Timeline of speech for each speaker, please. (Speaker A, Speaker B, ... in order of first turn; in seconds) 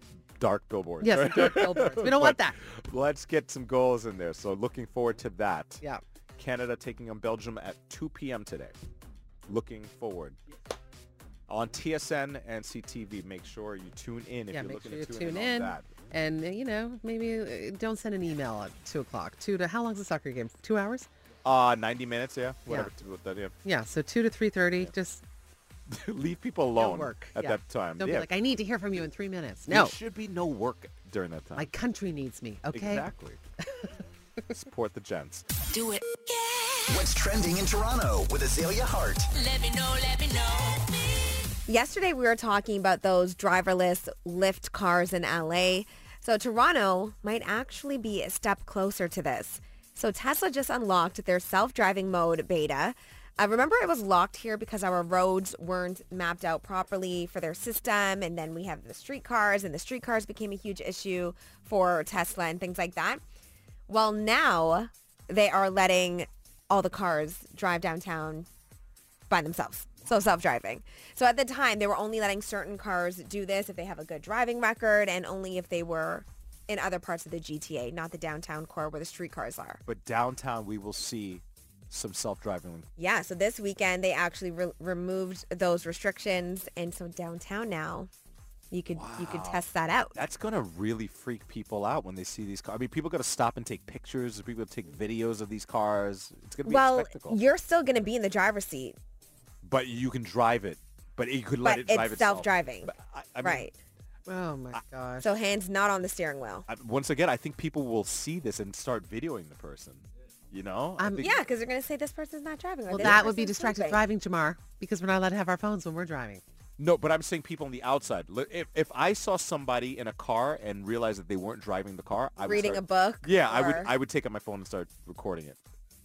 Speaker A: 0.4-5.8, 6.4-8.8, 9.5-10.4, 11.5-15.9, 21.4-23.5, 25.9-28.3, 29.7-31.7, 32.7-33.4, 34.5-35.5, 79.9-82.9, 88.9-97.4, 99.6-103.7, 106.7-111.4, 116.8-125.6
Speaker B: 1.0-2.6, 14.5-21.1, 23.6-25.2, 26.8-29.9, 31.6-33.1, 104.3-105.3, 111.0-111.2, 112.9-116.4
Speaker C: 35.7-37.1, 39.3-41.4
Speaker D: 36.9-39.3
Speaker E: 41.7-63.2, 63.9-68.5, 69.3-79.8, 83.0-88.1, 88.7-90.2, 96.7-99.0, 101.6-103.7, 105.2-106.7, 111.2-114.0, 122.4-123.9